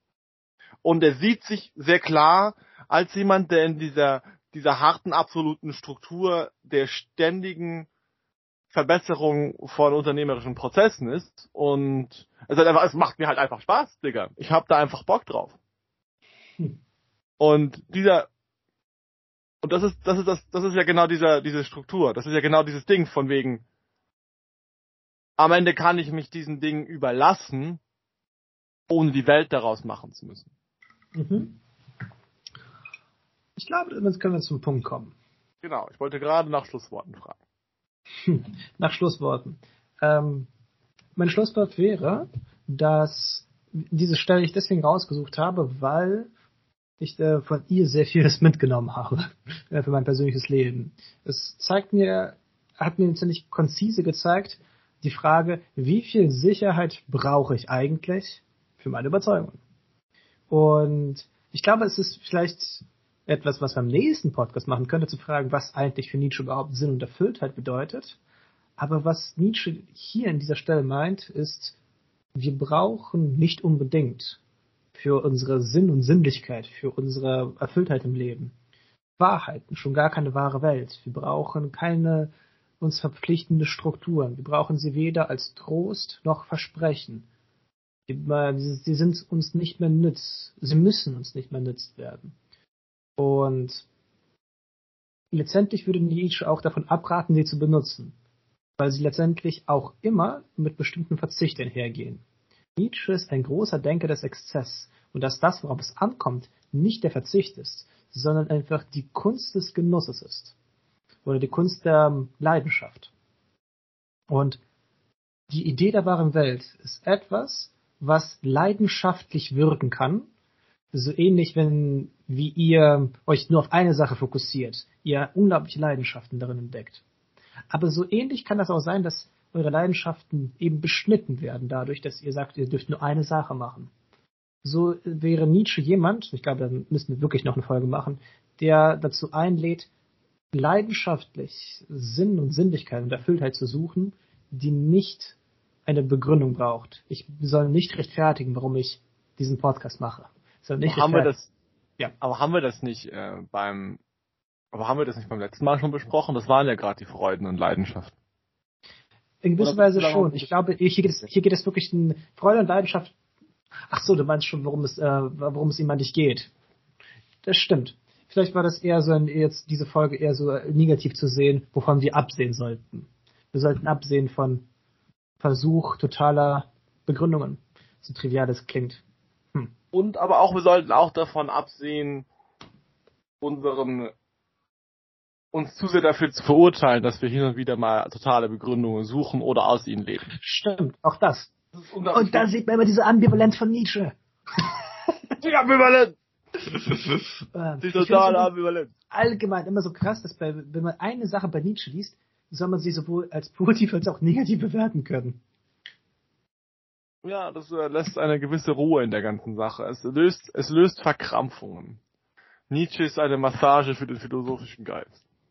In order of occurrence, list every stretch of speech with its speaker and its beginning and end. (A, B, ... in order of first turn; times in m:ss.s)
0:00.8-0:07.9 A
0:08.7-0:15.6 A
0:17.4-0:18.3 A
0:19.6-0:23.6 A
0:25.4-0:27.8 A
0:28.9-0:30.5 A
0:31.1-0:31.6 B
0:33.6-0:35.1 B
0:35.6-0:37.4 A
0:38.2-0:40.5 B
0:41.2-0:46.3 B
0:47.0-0:59.6 B
1:00.5-1:08.2 B
1:08.8-1:11.8 B
1:12.3-1:14.4 B
1:14.9-1:18.5 B
1:19.2-1:27.3 B
1:28.1-1:32.3 B
1:33.2-1:33.9 B
1:35.3-1:38.1 B
1:38.8-1:42.2 B
1:42.8-1:50.6 B
1:51.2-1:53.1 B
1:54.3-1:54.6 B
1:55.5-2:00.3 B
2:00.9-2:07.0 B
2:07.7-2:13.9 B
2:14.6-2:19.9 B
2:20.5-2:31.3 B
2:30.8-2:31.5 A
2:32.2-2:34.0 A
2:34.7-2:38.1 A
2:39.4-2:43.1 B
2:39.6-2:40.5 A
2:43.9-2:46.5 B
2:47.4-2:54.6 B
2:55.4-2:59.0 B
2:59.9-3:02.2 A
3:03.4-3:04.1 A
3:05.5-3:10.3 A
3:10.3-3:11.5 B
3:11.7-3:12.5 A
3:12.1-3:14.7 B
3:15.4-3:17.2 A
3:17.5-3:18.5 B
3:17.8-3:18.9 A
3:19.1-3:25.4 B
3:27.2-3:32.0 A
3:32.7-3:35.2 A